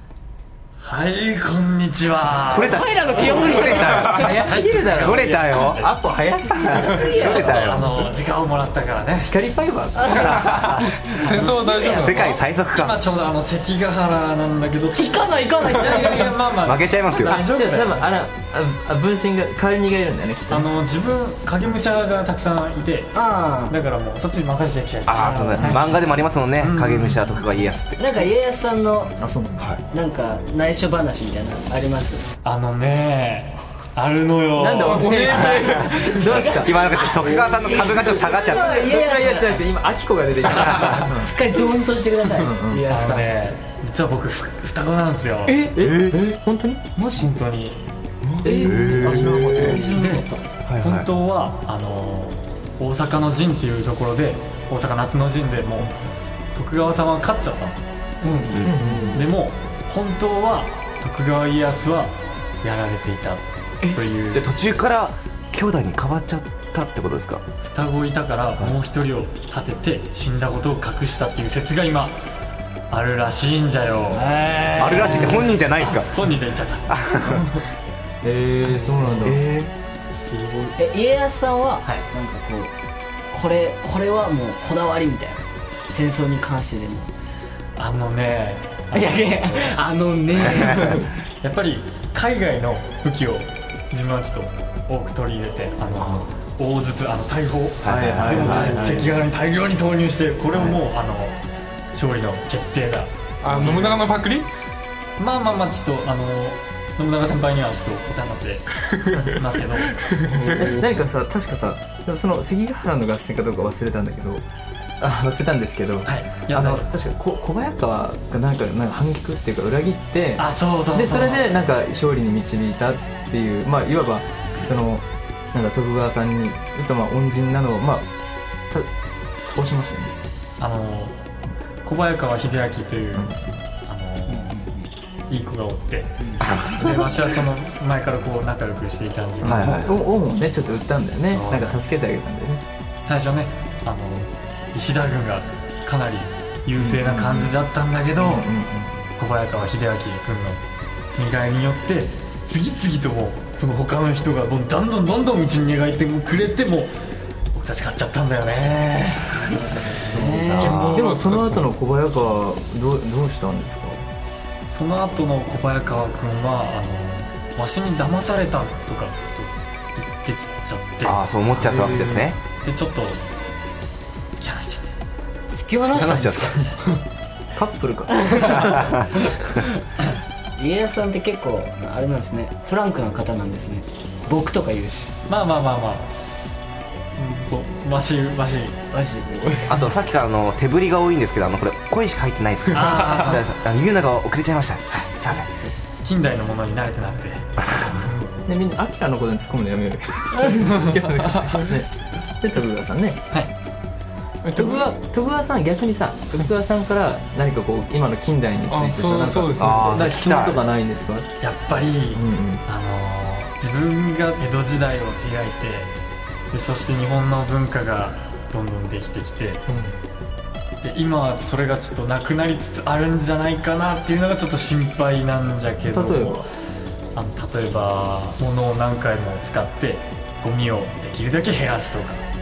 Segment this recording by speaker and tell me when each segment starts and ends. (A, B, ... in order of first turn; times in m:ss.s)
0:00.8-0:02.8 A
0:02.5-0:05.8 B
0:02.6-0:04.3 C
0:03.9-0:07.5 D
0:04.1-0:05.9 A
0:06.6-0:08.0 B
0:06.7-0:07.6 C
0:07.2-0:09.3 A
0:09.2-0:10.5 D
0:09.9-0:12.3 C
0:10.1-0:10.9 B
0:11.1-0:12.4 E
0:11.9-0:13.1 B
0:12.7-0:18.1 A
0:14.9-0:16.4 C
0:16.6-0:17.4 B
0:17.2-0:20.7 D
0:20.5-0:23.2 A
0:23.1-0:23.8 C
0:23.7-0:26.0 A
0:25.1-0:28.0 B
0:25.1-0:25.8 C
0:26.6-0:27.4 A
0:28.0-0:29.2 C
0:29.2-0:29.6 D
0:29.9-0:32.3 C
0:32.4-0:35.3 A
0:34.6-0:36.9 D
0:34.9-0:35.9 E
0:35.4-0:39.6 C
0:36.2-0:38.8 B
0:37.8-0:41.4 D
0:40.7-0:43.5 C
0:42.4-0:42.8 D
0:42.9-0:45.7 A
0:45.5-0:46.8 D
0:45.8-0:46.4 B
0:47.0-0:47.3 C
0:47.2-0:47.8 A
0:48.2-0:49.7 B
0:48.4-0:49.9 D
0:48.4-0:50.4 C
0:49.1-0:55.9 A
0:50.7-0:51.1 B
0:56.5-0:57.8 A
0:58.3-0:59.2 E
0:58.3-0:58.6 C
0:58.5-0:58.9 B
0:58.6-0:59.2 D
0:59.1-1:04.5 A
1:03.8-1:07.4 B
1:07.6-1:12.2 A
1:12.9-1:14.2 A
1:14.1-1:15.5 C
1:14.8-1:16.2 B
1:15.0-1:15.4 D
1:15.8-1:17.0 A
1:16.9-1:17.5 B
1:18.2-1:19.4 D
1:18.8-1:19.4 A
1:19.2-1:19.7 B
1:20.8-1:22.7 C
1:23.3-1:27.1 C
1:27.8-1:29.8 A
1:28.9-1:31.1 C
1:30.4-1:30.9 B
1:31.4-1:41.4 A
1:36.0-1:36.3 C
1:37.8-1:38.8 B
1:37.8-1:39.2 D
1:41.9-1:43.1 A
1:43.4-1:44.5 E
1:43.5-1:44.1 D
1:45.2-1:50.1 A
1:50.2-1:50.8 E
1:50.3-1:54.4 D
1:55.0-2:08.1 D
1:56.0-1:56.9 A
2:00.4-2:01.5 A
2:09.4-2:10.1 D
2:10.6-2:11.2 A
2:11.8-2:14.6 A
2:13.2-2:13.4 D
2:14.3-2:14.9 C
2:15.3-2:19.9 A
2:16.2-2:16.5 C
2:16.4-2:16.9 B
2:19.4-2:20.0 B
2:19.4-2:22.6 D
2:21.3-2:21.8 A
2:23.0-2:28.5 A
2:26.8-2:27.6 D
2:28.2-2:28.9 D
2:29.2-2:30.6 A
2:31.2-2:36.9 A
2:37.5-2:39.6 A
2:39.6-2:44.1 D
2:40.0-2:41.0 C
2:40.6-2:41.7 E
2:40.6-2:41.0 A
2:44.7-2:51.2 A
2:51.0-2:52.4 B
2:51.6-2:52.2 D
2:52.6-2:53.2 A
2:54.4-2:54.9 A
2:55.5-2:56.7 C
2:55.9-2:56.6 B
2:57.6-2:58.3 D
2:58.2-2:58.9 C
3:00.6-3:05.1 C
3:05.3-3:06.2 A
3:07.2-3:08.8 A
3:08.9-3:09.7 C
3:09.7-3:15.5 B
3:12.7-3:13.4 A
3:16.0-3:17.5 A
3:18.5-3:21.9 D
3:22.4-3:23.2 D
3:24.4-3:24.9 E
3:24.6-3:31.3 D
3:28.7-3:29.9 E
3:29.6-3:30.6 B
3:31.4-3:35.9 A
3:32.1-3:32.6 D
3:36.5-3:39.6 A
3:39.7-3:40.0 D
3:40.8-3:46.5 A
3:45.9-3:46.5 D
3:47.2-3:52.2 A